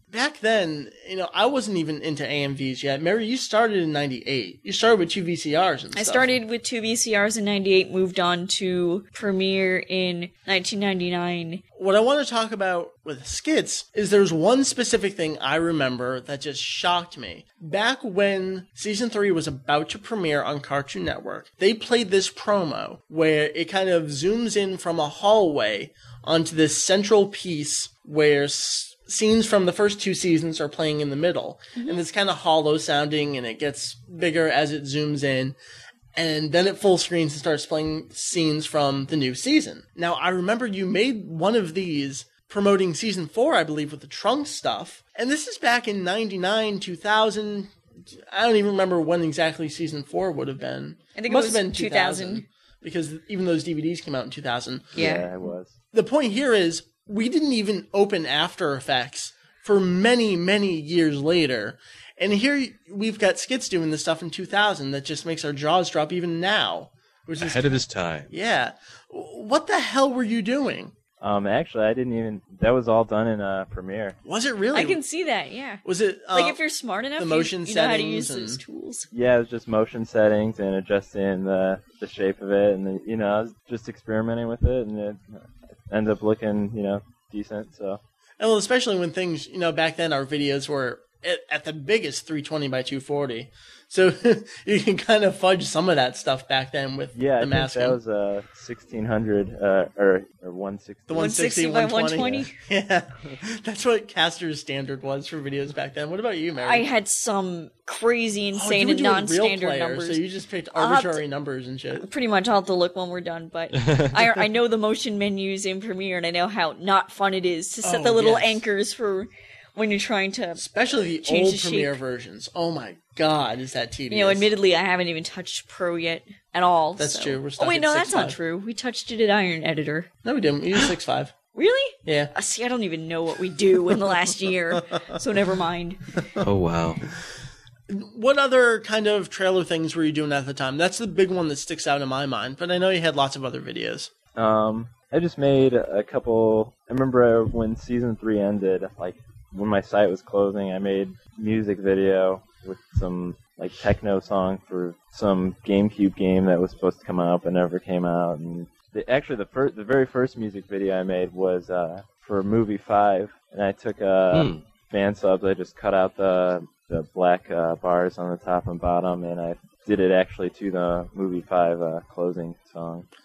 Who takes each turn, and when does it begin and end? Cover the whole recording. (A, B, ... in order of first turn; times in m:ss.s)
0:00.1-0:06.3 A
0:06.0-0:11.6 B
0:11.8-0:35.6 A
0:36.2-0:47.7 A
0:48.3-0:55.0 A
0:51.2-0:52.4 B
0:55.0-0:55.7 C
0:55.0-0:55.3 B
0:55.9-1:07.8 A
1:07.4-1:08.3 D
1:08.3-1:10.9 A
1:11.2-1:14.2 C
1:14.2-1:15.0 A
1:14.7-1:19.1 B
1:15.8-1:16.6 A
1:17.2-1:18.6 A
1:19.1-1:28.0 C
1:28.4-1:38.0 A
1:37.2-1:41.3 C
1:41.1-1:46.9 A
1:41.1-1:42.5 B
1:42.2-1:42.5 C
1:46.6-1:50.2 B
1:48.6-1:52.1 A
1:50.8-1:51.2 B
1:52.0-2:02.0 B
1:57.8-1:58.6 A
2:00.6-2:04.5 A
2:04.1-2:10.1 B
2:07.0-2:08.4 A
2:10.2-2:11.3 A
2:11.6-2:16.1 B
2:12.0-2:12.3 A
2:16.4-2:17.1 D
2:17.9-2:24.1 A
2:24.4-2:53.1 C
2:44.3-2:44.6 D